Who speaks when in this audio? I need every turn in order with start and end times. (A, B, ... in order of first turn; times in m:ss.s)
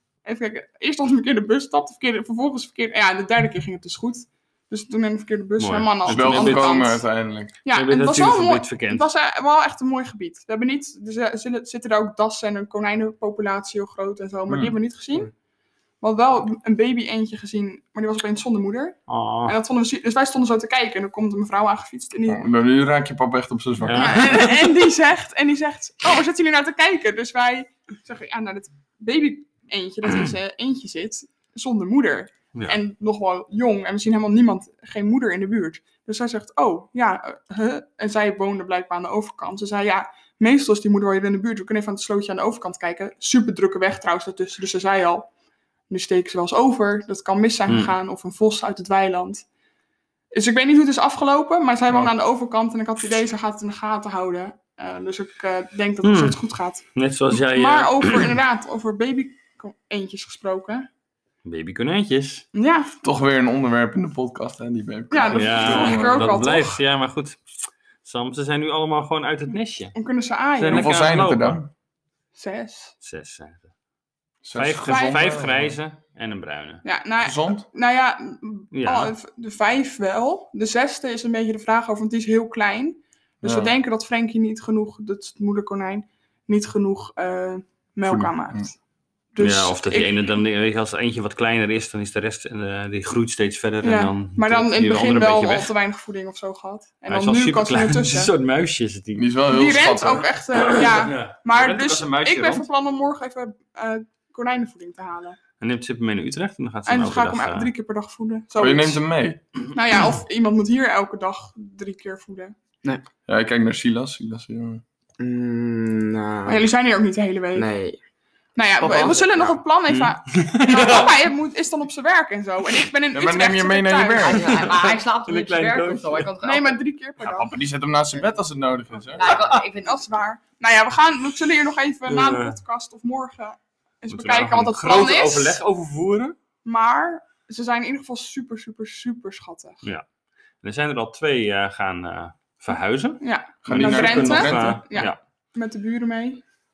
0:00.2-0:07.0 A
0:05.6-0:06.8 B
0:06.0-0:07.6 C
0:07.6-0:15.3 A
0:07.7-0:09.1 B
0:14.5-0:14.8 C
0:16.0-0:22.5 A
0:19.1-0:19.6 B
0:22.3-0:24.2 C
0:23.8-0:24.8 B
0:24.0-0:45.3 A
0:45.9-0:49.4 A
0:47.7-0:47.9 B
0:50.3-1:00.9 A
0:56.0-0:58.3 B
1:01.4-1:02.4 B
1:02.5-1:02.9 A
1:03.0-1:06.3 C
1:05.1-1:06.8 A
1:05.3-1:10.0 B
1:09.9-1:10.9 A
1:10.6-1:11.6 B
1:10.7-1:11.7 C
1:12.3-1:12.9 A
1:13.0-1:13.7 B
1:14.4-1:15.7 C
1:14.5-1:16.8 B
1:14.9-1:15.2 A
1:16.8-1:28.7 A
1:17.2-1:17.6 C
1:18.7-1:19.1 B
1:23.4-1:23.7 C
1:28.0-1:28.7 C
1:29.3-1:30.1 A
1:29.4-1:35.7 B
1:33.8-1:38.3 A
1:37.1-1:39.3 B
1:39.2-1:40.3 C
1:39.5-1:45.4 A
1:40.5-1:42.6 B
1:45.6-1:47.7 B
1:46.8-1:49.0 A
1:48.6-1:49.4 C
1:49.7-1:52.5 A
1:53.3-1:54.8 C
1:55.2-1:56.6 D
1:56.4-1:57.7 A
1:57.5-1:58.0 D
1:58.6-2:04.5 A
1:58.8-1:59.6 D
1:58.8-1:59.2 E
1:59.9-2:01.2 B
2:03.1-2:04.6 C
2:04.2-2:06.8 E
2:04.6-2:06.3 B
2:06.4-2:07.6 A
2:07.2-2:09.3 C
2:09.1-2:10.0 E
2:09.2-2:15.6 A
2:09.3-2:09.6 B
2:12.0-2:12.6 B
2:14.1-2:16.4 B
2:16.6-2:19.8 A
2:20.6-2:25.2 B
2:23.2-2:26.4 A
2:23.6-2:24.8 C